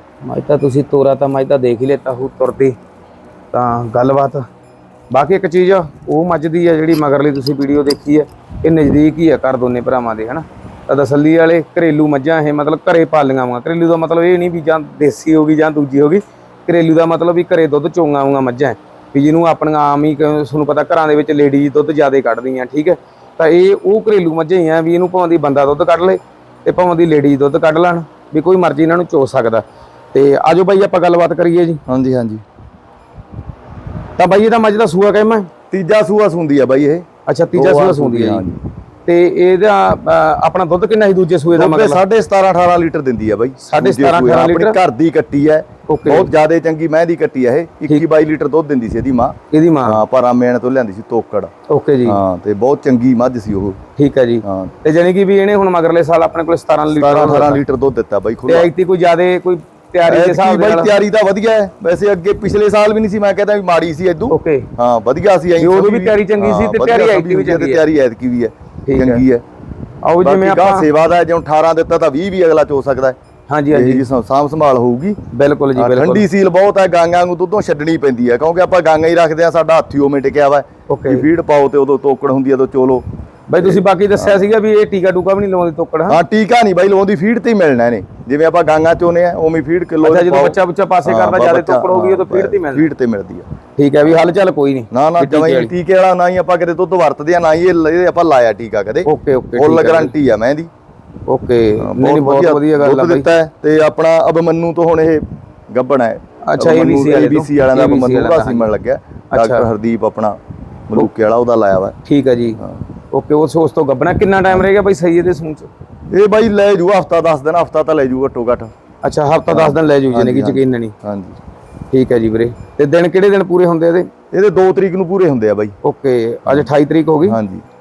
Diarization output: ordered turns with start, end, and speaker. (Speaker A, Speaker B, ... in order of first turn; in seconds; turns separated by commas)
Speaker A: 0.2-2.8, Speaker A: 3.5-4.5, Speaker A: 5.1-31.8, Speaker B: 31.9-32.4, Speaker A: 34.2-35.5, Speaker B: 35.7-38.6, Speaker A: 37.3-38.4, Speaker A: 39.1-42.0, Speaker B: 41.5-51.5, Speaker A: 43.6-44.8, Speaker A: 45.9-46.3, Speaker A: 49.5-50.0, Speaker A: 51.7-52.2, Speaker B: 52.1-53.8, Speaker A: 54.0-57.6, Speaker B: 54.4-54.7, Speaker B: 56.9-58.7, Speaker A: 58.5-61.0, Speaker B: 60.1-69.4, Speaker A: 64.3-64.7, Speaker A: 65.6-67.8, Speaker A: 68.9-69.2, Speaker A: 70.0-70.9, Speaker B: 70.2-73.2, Speaker A: 73.5-74.0, Speaker B: 73.7-75.2, Speaker A: 75.3-76.3, Speaker B: 75.8-83.0, Speaker A: 80.9-81.3, Speaker A: 83.5-86.2, Speaker B: 83.6-84.5, Speaker B: 86.1-93.5, Speaker A: 90.0-92.9, Speaker A: 93.8-95.7, Speaker B: 94.1-94.3, Speaker B: 94.9-100.7, Speaker A: 99.1-100.1, Speaker A: 101.3-103.3, Speaker B: 101.8-110.4, Speaker A: 106.4-108.7, Speaker A: 109.3-109.7, Speaker B: 110.9-112.0, Speaker A: 112.0-112.6, Speaker B: 112.6-112.8, Speaker A: 113.1-115.7, Speaker B: 116.1-118.7, Speaker A: 119.0-120.9, Speaker B: 119.5-121.4, Speaker A: 121.9-124.1, Speaker B: 124.3-125.8, Speaker A: 125.8-127.4, Speaker B: 127.2-127.6